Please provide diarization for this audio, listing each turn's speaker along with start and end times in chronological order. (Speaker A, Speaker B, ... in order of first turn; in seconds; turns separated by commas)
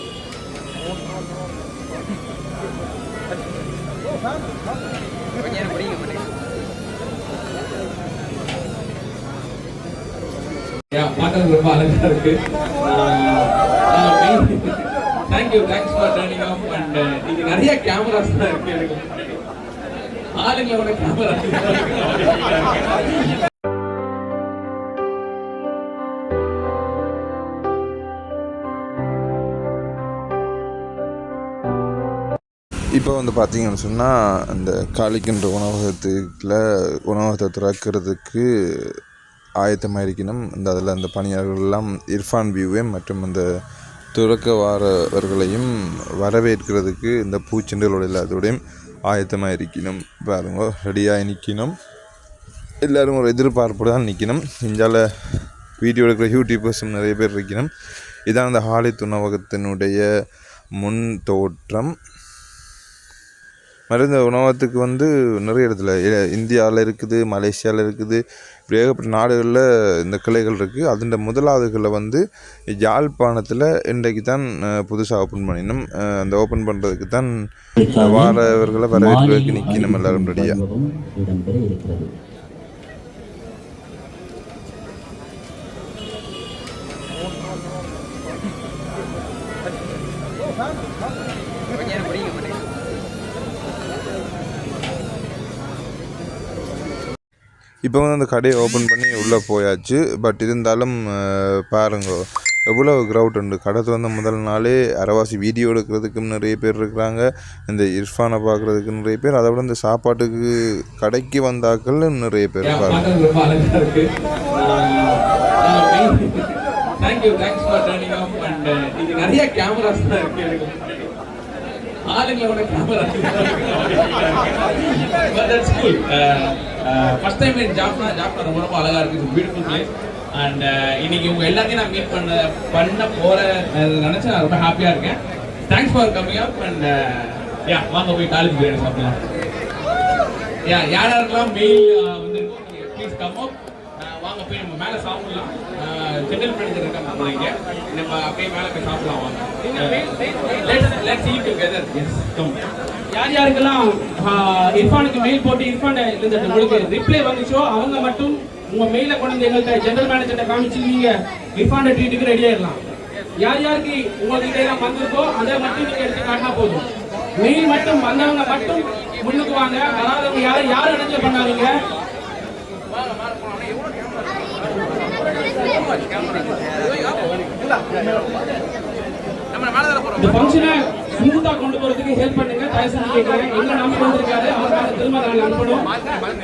Speaker A: 10.9-19.4, Speaker A: 20.3-23.3, Speaker B: 33.0-38.9, Speaker B: 39.6-43.4, Speaker B: 44.1-51.7, Speaker B: 52.8-55.0, Speaker B: 55.8-57.7, Speaker B: 58.3-60.0, Speaker B: 60.8-61.9, Speaker B: 63.9-72.2, Speaker B: 72.8-77.3, Speaker C: 77.8-78.3, Speaker B: 77.9-80.6, Speaker C: 78.9-82.1, Speaker B: 97.9-102.2, Speaker B: 102.7-110.4, Speaker B: 111.0-113.0, Speaker A: 112.6-121.1, Speaker A: 122.1-139.2, Speaker A: 140.7-152.6, Speaker D: 149.7-150.6, Speaker D: 153.2-162.9, Speaker D: 163.4-166.8, Speaker D: 167.4-171.7, Speaker A: 173.0-173.9, Speaker A: 175.6-177.4, Speaker D: 180.2-185.9